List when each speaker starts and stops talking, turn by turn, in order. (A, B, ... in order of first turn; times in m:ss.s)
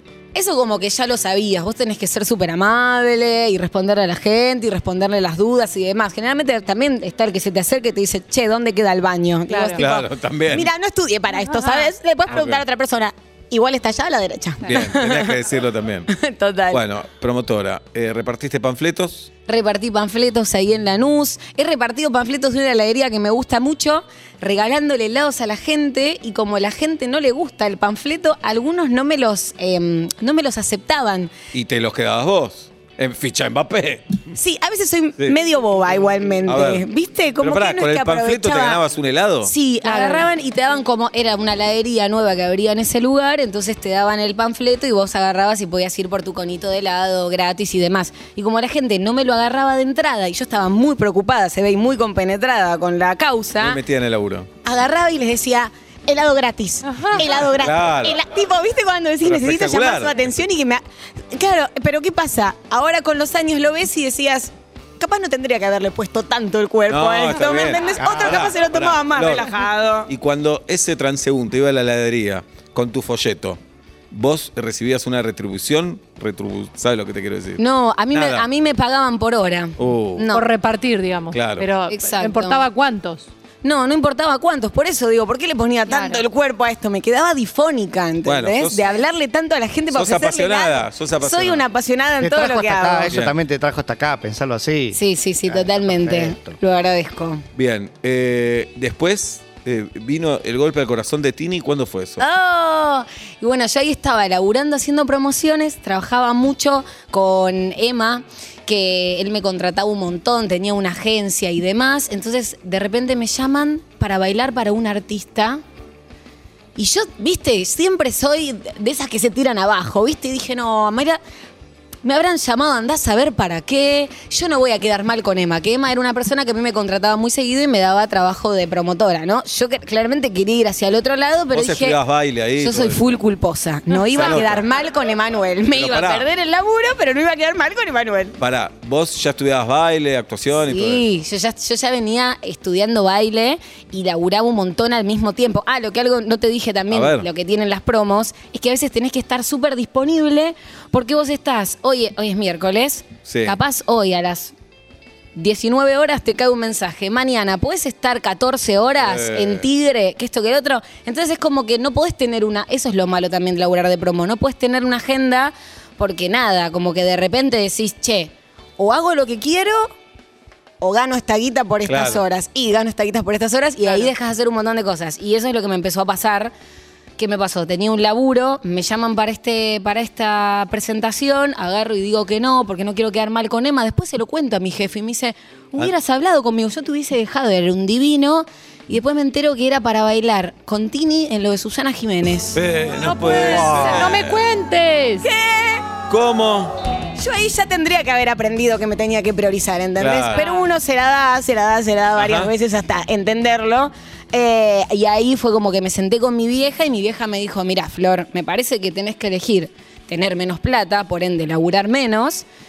0:00.3-0:15.4 A
0:09.5-0:09.8 B
0:09.8-0:10.7 C
0:11.5-0:11.9 B
0:12.3-0:12.6 C
0:14.7-0:16.1 C
0:16.1-0:16.8 A
0:16.7-0:19.3 C
0:19.5-0:31.3 A
0:31.5-0:34.3 C
0:34.3-0:38.8 A
0:36.5-0:36.8 C
0:37.4-0:39.5 C
0:39.4-0:53.8 A
0:39.8-0:40.3 B
0:53.6-0:54.5 C
0:54.6-1:00.8 A
0:56.9-0:57.2 B
0:57.4-0:58.2 C
0:59.2-1:00.4 C
1:01.3-1:10.1 A
1:06.9-1:09.5 C
1:10.1-1:13.6 C
1:14.1-1:18.4 C
1:17.6-1:20.5 A
1:19.8-1:20.3 C
1:20.3-1:23.3 B
1:21.3-1:21.7 C
1:21.9-1:22.6 A
1:23.6-1:33.2 A
1:25.9-1:26.2 B
1:28.2-1:28.9 C
1:29.9-1:31.6 C
1:32.2-1:36.6 D
1:33.1-1:33.4 C
1:34.9-1:37.4 A
1:37.6-1:42.2 C
1:42.2-1:55.6 A
1:56.8-2:01.2 A
2:02.0-2:12.0 A
2:11.5-2:13.1 C
2:12.6-2:18.4 A
2:14.1-2:14.4 B
2:14.1-2:14.6 C
2:15.7-2:16.3 C
2:18.4-2:21.0 C
2:20.6-2:34.5 A
2:26.9-2:27.3 C
2:33.3-2:33.6 C
2:35.4-2:49.9 A
2:39.0-2:39.7 C
2:50.8-2:56.5 A
2:51.9-2:52.2 C
2:57.2-3:12.6 A
3:12.6-3:14.4 C
3:13.0-3:15.3 B
3:13.2-3:14.2 A
3:15.2-3:15.9 A
3:16.1-3:16.8 C
3:17.2-3:32.4 A
3:20.0-3:20.4 C
3:20.3-3:20.7 B
3:22.2-3:22.5 C